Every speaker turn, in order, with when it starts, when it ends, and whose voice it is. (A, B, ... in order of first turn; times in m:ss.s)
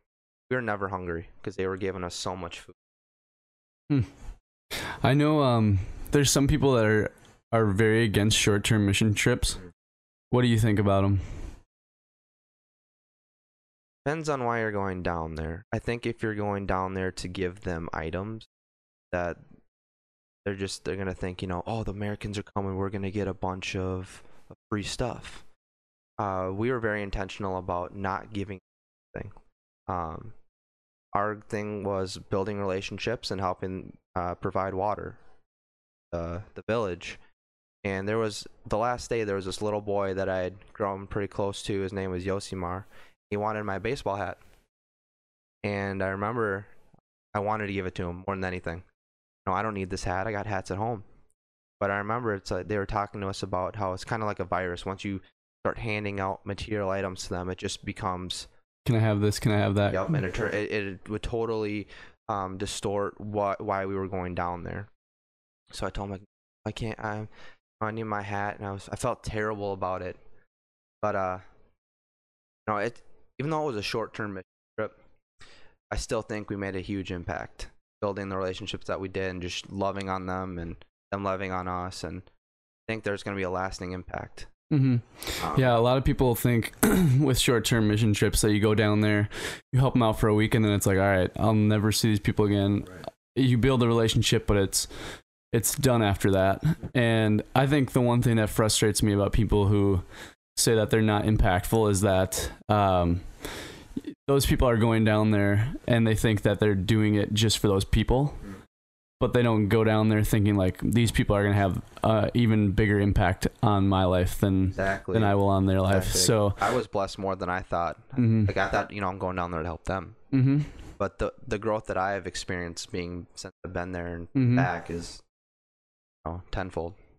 0:00.5-0:02.8 A
0:04.8-0:09.6 B
0:10.3-0:11.2 B
0:14.0-0:18.5 A
0:19.1-0:19.4 A
0:20.4-0:25.4 A
0:26.2-0:29.3 A
0:29.9-0:30.3 A
0:31.1-0:35.2 A
0:36.1-0:37.2 A
0:37.8-0:44.4 A
0:45.6-0:46.7 A
0:47.3-0:48.8 A
0:49.4-0:51.0 A
0:51.8-0:58.5 A
0:58.8-1:00.0 B
0:59.9-1:04.9 A
1:05.7-1:10.2 A
1:11.0-1:11.4 A
1:12.6-1:15.0 A
1:15.9-1:22.2 A
1:22.9-1:24.5 A
1:24.7-1:34.9 B
1:25.4-1:25.6 A
1:35.5-1:48.4 B
1:49.2-1:56.6 B
1:54.8-2:00.2 A
1:58.2-1:58.5 B
2:00.3-2:00.7 B
2:01.0-2:05.2 A
2:04.3-2:04.7 B
2:06.2-2:07.0 A